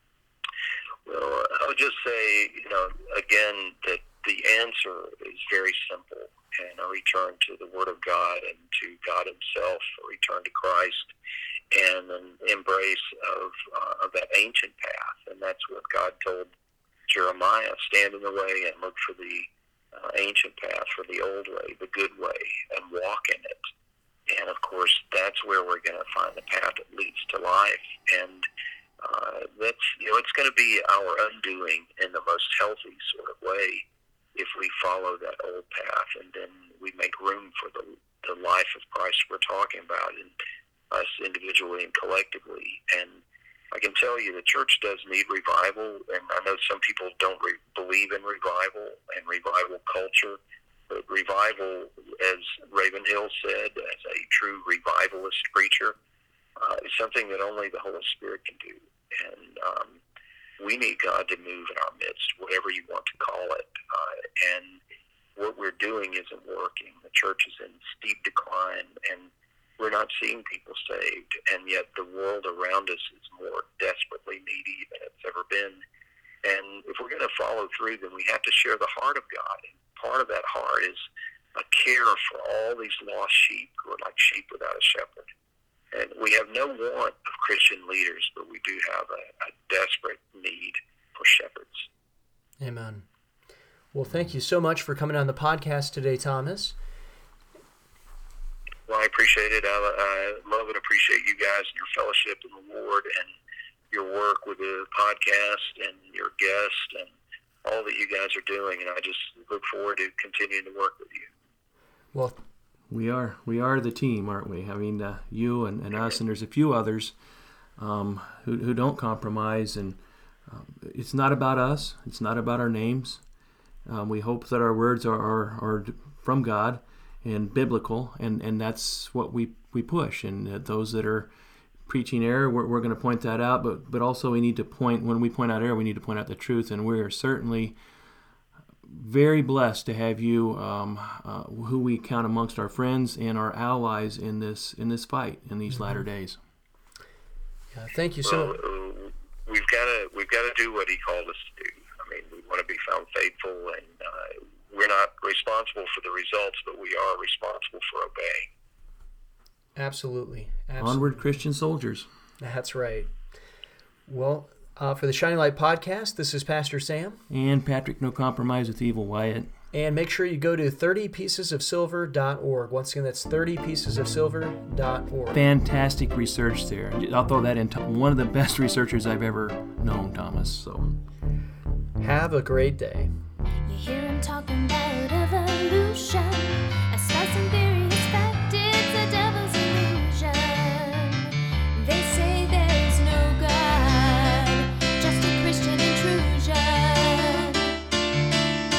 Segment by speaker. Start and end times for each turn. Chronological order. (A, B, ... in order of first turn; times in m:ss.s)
0:01.1-0:11.1 A
0:11.7-0:16.5 A
0:17.1-0:23.6 A
0:24.3-0:28.5 A
0:29.0-0:40.3 A
0:40.9-0:43.2 A
0:43.7-0:56.0 A
0:56.6-1:00.0 A
1:00.6-1:04.8 A
1:05.4-1:15.8 A
1:16.4-1:21.0 A
1:21.6-1:25.3 A
1:25.9-1:31.9 A
1:32.6-1:33.1 B
1:33.9-1:36.8 B
1:38.9-1:43.3 A
1:43.9-1:47.1 A
1:47.6-1:51.3 A
1:52.9-1:57.2 C
1:57.8-2:03.2 C
2:03.9-2:11.3 C
2:11.9-2:17.8 C
2:18.9-2:26.4 C
2:27.7-2:28.6 B
2:28.2-2:38.5 A
2:39.8-2:41.3 B
2:40.8-2:42.1 C
2:42.4-2:43.1 B
2:44.1-2:47.2 B
2:47.3-2:49.5 C
2:49.7-2:55.4 B
2:55.3-3:00.9 C
3:02.0-3:03.1 B
3:03.6-3:17.6 D